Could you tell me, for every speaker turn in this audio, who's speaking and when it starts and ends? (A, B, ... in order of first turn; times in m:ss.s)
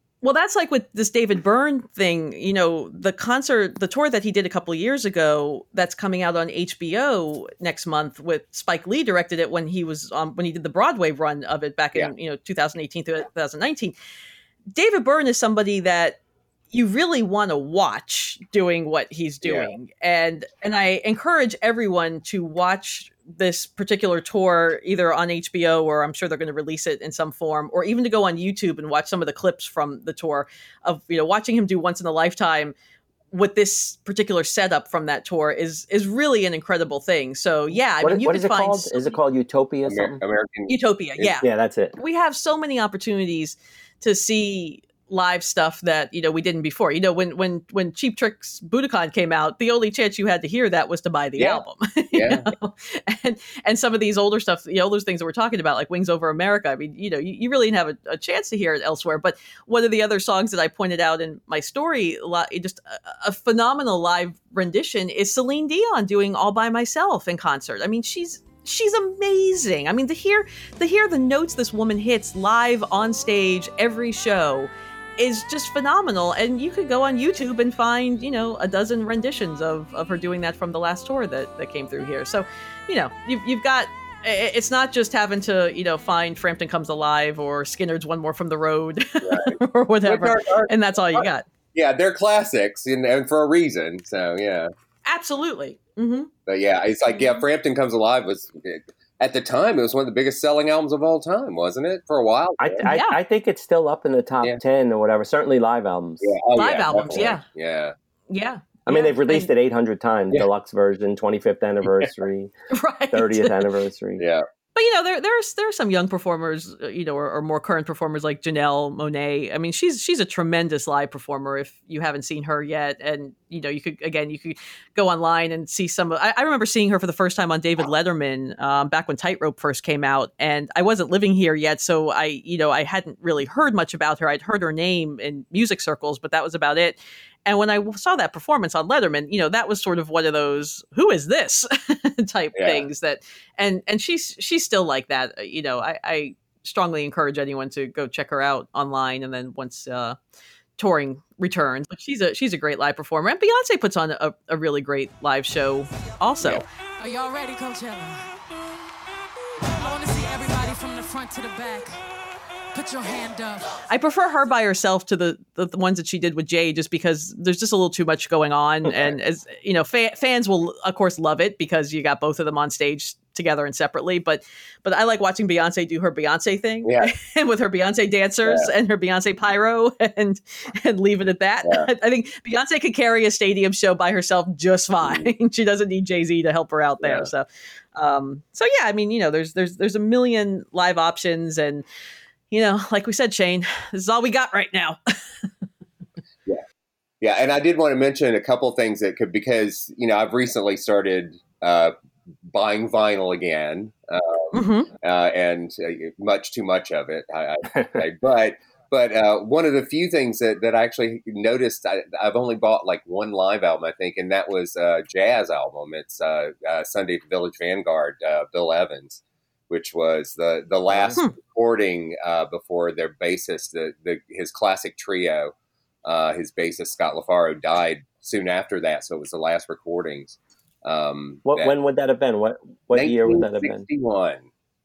0:00.2-0:14.0 A
0:14.8-0:16.2 A
0:16.7-0:32.8 A
0:19.4-0:19.7 B
0:33.3-0:39.2 A
0:38.0-0:40.2 C
0:39.9-0:41.3 B
0:40.7-1:31.4 A
0:41.4-0:42.0 C
0:52.1-0:52.4 B
1:29.2-1:34.7 B
1:35.0-1:36.3 A
1:36.5-1:42.8 B
1:42.6-1:46.3 C
1:42.8-1:43.2 A
1:46.2-1:47.9 B
1:46.6-1:47.4 A
1:48.3-1:49.5 A
1:48.9-1:52.5 C
1:52.7-1:53.6 A
1:53.1-1:54.2 C
1:54.2-1:54.4 B
1:54.8-2:30.2 A
2:22.6-2:22.8 B
2:30.8-2:36.6 A
2:37.0-2:38.3 D
2:39.8-2:42.0 D
2:42.7-2:43.8 D
2:43.9-3:11.8 A
2:56.8-2:57.1 B
2:58.4-2:58.7 B
3:05.0-3:05.3 B
3:07.0-3:07.3 B
3:12.5-3:15.0 A
3:17.2-3:21.9 B
3:22.5-3:45.5 B
3:24.5-3:24.9 A
3:40.9-3:41.2 C
3:46.0-3:51.8 B
3:51.5-3:53.8 C
3:52.9-3:54.5 B